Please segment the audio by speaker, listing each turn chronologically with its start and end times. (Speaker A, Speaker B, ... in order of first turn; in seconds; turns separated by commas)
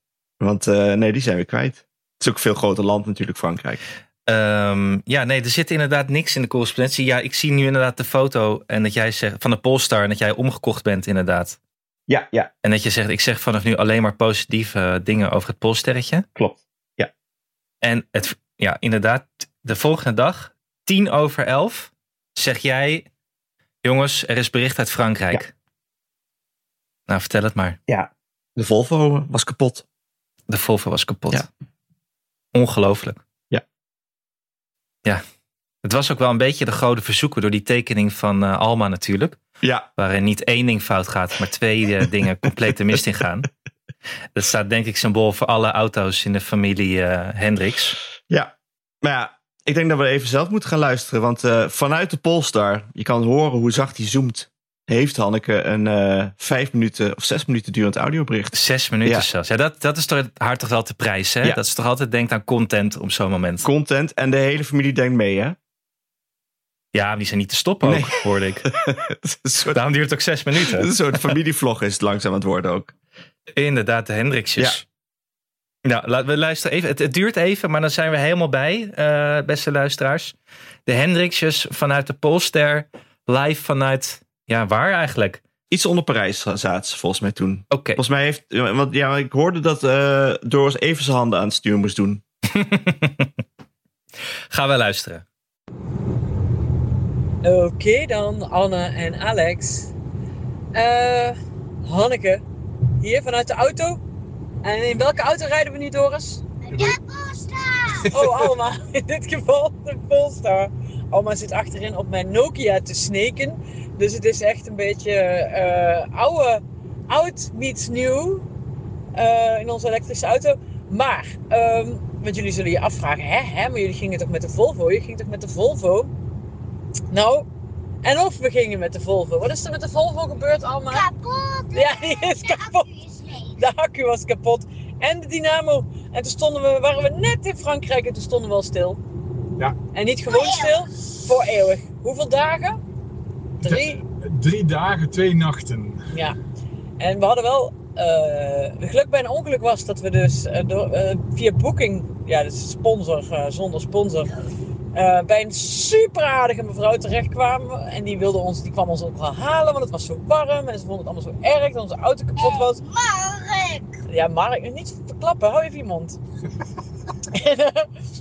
Speaker A: 0.4-3.8, Speaker B: 4.3-11.6, Speaker A: 12.1-12.5, Speaker B: 12.6-16.2, Speaker A: 16.3-17.1, Speaker B: 17.8-23.1, Speaker B: 23.8-25.5, Speaker B: 27.1-27.8, Speaker A: 27.9-29.8, Speaker B: 30.5-31.5, Speaker B: 32.5-33.2, Speaker B: 35.8-39.4, Speaker A: 39.6-39.9, Speaker B: 40.0-43.5, Speaker B: 44.3-48.0, Speaker A: 48.3-59.3, Speaker B: 58.5-63.7, Speaker A: 63.6-65.6, Speaker B: 66.9-68.7, Speaker A: 67.8-69.8, Speaker B: 69.7-70.9, Speaker A: 70.6-72.9, Speaker B: 73.5-74.8, Speaker B: 75.8-80.3, Speaker B: 80.8-85.4, Speaker A: 85.7-92.2, Speaker B: 87.7-88.0, Speaker B: 92.5-93.3, Speaker B: 94.5-95.2, Speaker C: 97.4-99.9, Speaker C: 100.7-102.4, Speaker C: 103.0-104.0, Speaker C: 104.6-106.4, Speaker D: 106.7-108.1, Speaker E: 106.7-107.0, Speaker C: 108.1-118.5, Speaker E: 108.2-108.5, Speaker C: 119.1-126.1, Speaker C: 127.1-127.5, Speaker C: 128.0-131.1, Speaker D: 130.9-133.5, Speaker C: 131.7-132.9, Speaker C: 133.6-139.0, Speaker C: 139.9-142.8, Speaker D: 140.3-140.8, Speaker C: 143.6-144.0, Speaker E: 143.6-146.1, Speaker C: 147.0-154.3, Speaker C: 154.9-162.8, Speaker D: 162.4-163.9, Speaker C: 164.1-166.2, Speaker C: 167.3-167.9